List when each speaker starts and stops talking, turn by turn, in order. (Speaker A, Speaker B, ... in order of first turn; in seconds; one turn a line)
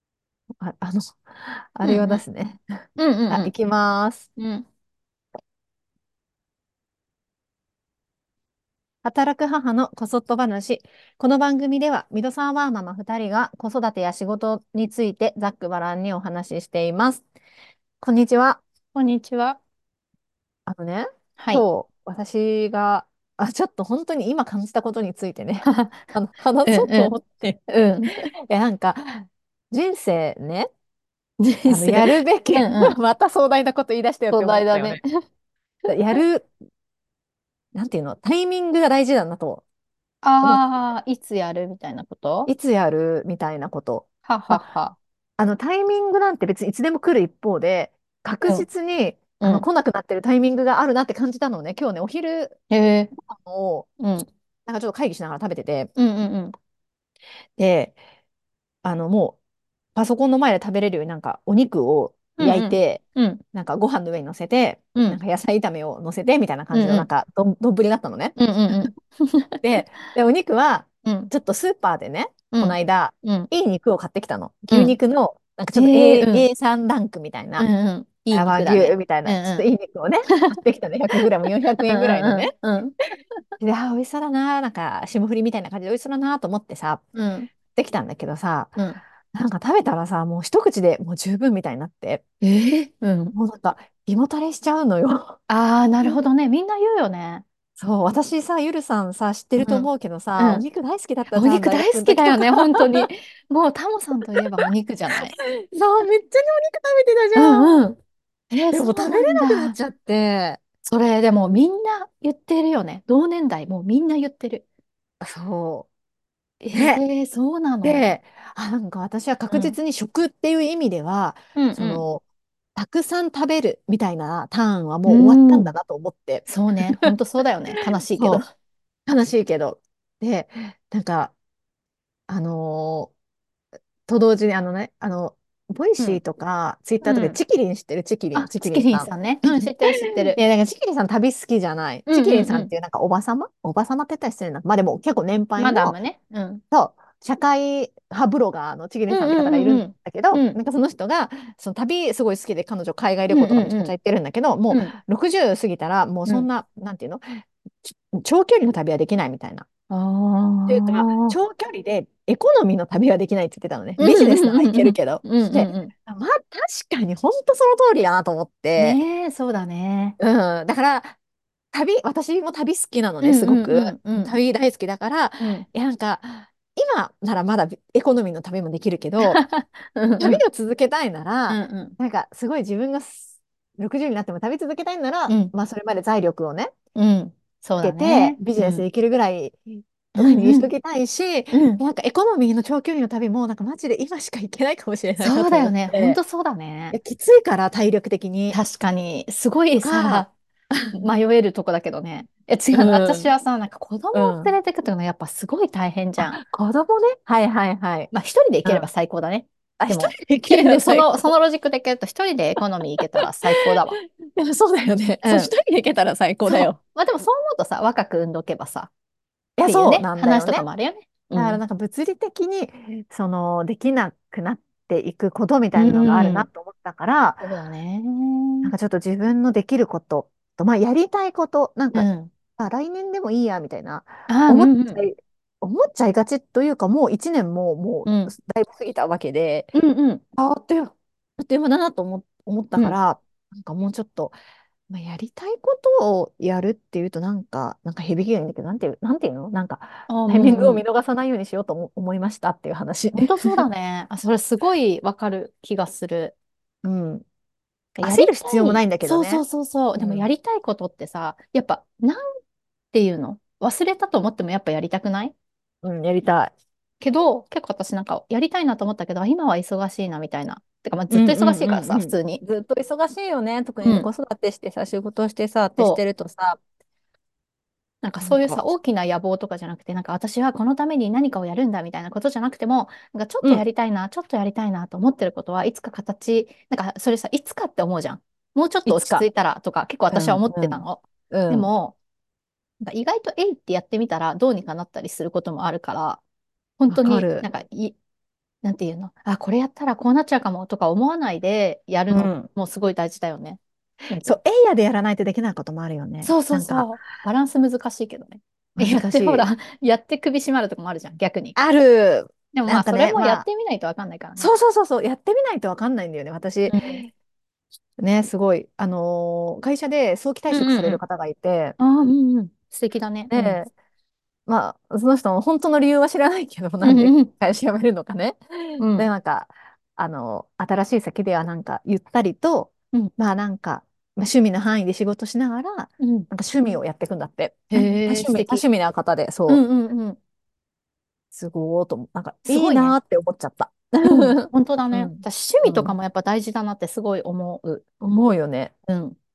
Speaker A: 0.6-4.3
Speaker B: 1.8-2.2
Speaker B: 3.0-3.5
Speaker B: 4.4-4.6
Speaker A: 9.0-17.2
Speaker A: 18.0-18.6
Speaker B: 18.9-19.6
Speaker A: 20.6-27.2
Speaker B: 21.4-21.6
Speaker B: 25.6-26.1
Speaker B: 26.6-28.3
Speaker A: 28.1-30.7
Speaker B: 31.4-33.0
Speaker A: 31.7-35.0
Speaker B: 34.3-35.0
Speaker B: 35.9-36.2
Speaker A: 35.9-36.5
Speaker A: 37.7-39.6
Speaker B: 40.2-42.5
Speaker A: 40.4-40.9
Speaker A: 42.5-44.7
Speaker B: 44.3-45.0
Speaker A: 45.4-52.5
Speaker B: 49.4-49.6
Speaker B: 52.7-53.1
Speaker A: 53.2-55.9
Speaker B: 54.0-54.2
Speaker B: 56.0-56.5
Speaker A: 57.6-58.0
Speaker A: 58.8-59.4
Speaker A: 59.9-63.0
Speaker B: 62.4-63.4
Speaker A: 63.5-68.8
Speaker B: 64.9-65.2
Speaker B: 66.7-67.1
Speaker B: 68.4-69.6
Speaker A: 69.6-77.7
Speaker B: 71.0-71.3
Speaker B: 72.5-73.5
Speaker B: 74.7-75.0
Speaker B: 75.7-76.5
Speaker B: 77.6-79.7
Speaker A: 78.3-82.5
Speaker B: 80.3-80.5
Speaker B: 81.8-82.9
Speaker A: 83.6-87.0
Speaker B: 87.1-87.5
Speaker A: 87.5-88.8
Speaker A: 89.3-92.2
Speaker B: 92.4-93.3
Speaker A: 93.3-95.4
Speaker B: 95.5-97.4
Speaker A: 97.8-103.1
Speaker B: 99.6-100.6
Speaker B: 101.3-105.3
Speaker A: 105.1-107.8
Speaker B: 107.3-108.0
Speaker B: 108.5-109.8
Speaker A: 108.7-110.6
Speaker B: 110.8-114.6
Speaker A: 115.2-115.9
Speaker B: 116.6-118.1
Speaker A: 116.7-117.0
Speaker A: 117.8-122.2
Speaker B: 119.5-119.8
Speaker B: 121.5-122.0
Speaker A: 122.7-127.1
Speaker B: 125.0-125.7
Speaker B: 126.5-128.4
Speaker A: 127.8-128.4
Speaker A: 129.1-131.3
Speaker A: 132.3-133.1
Speaker A: 134.1-145.9
Speaker B: 137.0-137.4
Speaker B: 138.3-140.4
Speaker B: 142.1-142.7
Speaker B: 145.6-146.6
Speaker A: 146.7-159.7
Speaker B: 149.1-150.6
Speaker B: 153.3-153.9
Speaker B: 154.7-154.9
Speaker B: 159.9-161.4
Speaker A: 160.7-169.0
Speaker B: 164.0-165.9
Speaker B: 168.8-170.2
Speaker A: 170.2-171.1
Speaker A: 171.7-179.4
Speaker B: 173.2-174.3
Speaker B: 175.4-175.7
Speaker B: 179.2-180.4
Speaker A: 180.2-186.7
Speaker B: 181.5-181.9
Speaker B: 185.3-185.5
Speaker B: 186.9-188.8
Speaker A: 187.8-196.2
Speaker B: 190.2-190.7
Speaker B: 191.5-191.8
Speaker B: 195.2-197.0
Speaker A: 196.9-198.6
Speaker B: 198.5-200.3
Speaker A: 199.8-201.1
Speaker B: 200.9-206.4
Speaker A: 202.7-203.3
Speaker A: 204.1-204.6
Speaker A: 206.2-208.1
Speaker B: 208.1-214.0
Speaker A: 209.8-211.3
Speaker A: 213.4-216.8
Speaker B: 215.2-215.5
Speaker B: 216.4-218.9
Speaker A: 219.6-220.6
Speaker B: 219.6-221.6
Speaker A: 221.3-227.4
Speaker B: 225.7-226.5
Speaker B: 227.4-228.7
Speaker A: 228.6-239.7
Speaker B: 231.9-232.3
Speaker B: 234.3-235.1
Speaker B: 238.1-238.3
Speaker B: 239.7-240.2
Speaker A: 240.3-244.3
Speaker A: 244.9-253.6
Speaker B: 250.1-250.8
Speaker B: 253.2-256.3
Speaker A: 256.8-257.2
Speaker B: 258.0-262.2
Speaker A: 258.0-259.4
Speaker A: 260.0-260.3
Speaker B: 262.9-265.3
Speaker A: 265.8-266.5
Speaker B: 267.0-272.4
Speaker A: 271.1-276.6
Speaker B: 273.8-274.1
Speaker B: 275.8-276.0
Speaker B: 278.0-291.9
Speaker A: 278.2-278.7
Speaker A: 288.9-289.3
Speaker A: 290.1-291.7
Speaker B: 292.8-296.2
Speaker B: 296.8-298.0
Speaker A: 296.9-297.5
Speaker B: 298.6-303.6
Speaker A: 302.1-302.5
Speaker B: 304.1-304.3
Speaker A: 304.2-307.0
Speaker B: 306.2-311.6
Speaker A: 308.7-309.5
Speaker A: 311.6-313.4
Speaker B: 312.5-314.5
Speaker A: 314.4-317.1
Speaker B: 316.7-317.0
Speaker A: 318.0-321.8
Speaker B: 320.5-321.0
Speaker B: 321.8-323.7
Speaker A: 323.3-323.7
Speaker A: 324.5-339.6
Speaker B: 326.8-327.3
Speaker B: 328.8-329.1
Speaker B: 336.0-336.3
Speaker B: 337.7-338.6
Speaker B: 339.5-340.2
Speaker A: 341.3-345.9
Speaker B: 342.4-343.0
Speaker B: 344.0-347.8
Speaker A: 348.0-348.7
Speaker B: 348.9-349.1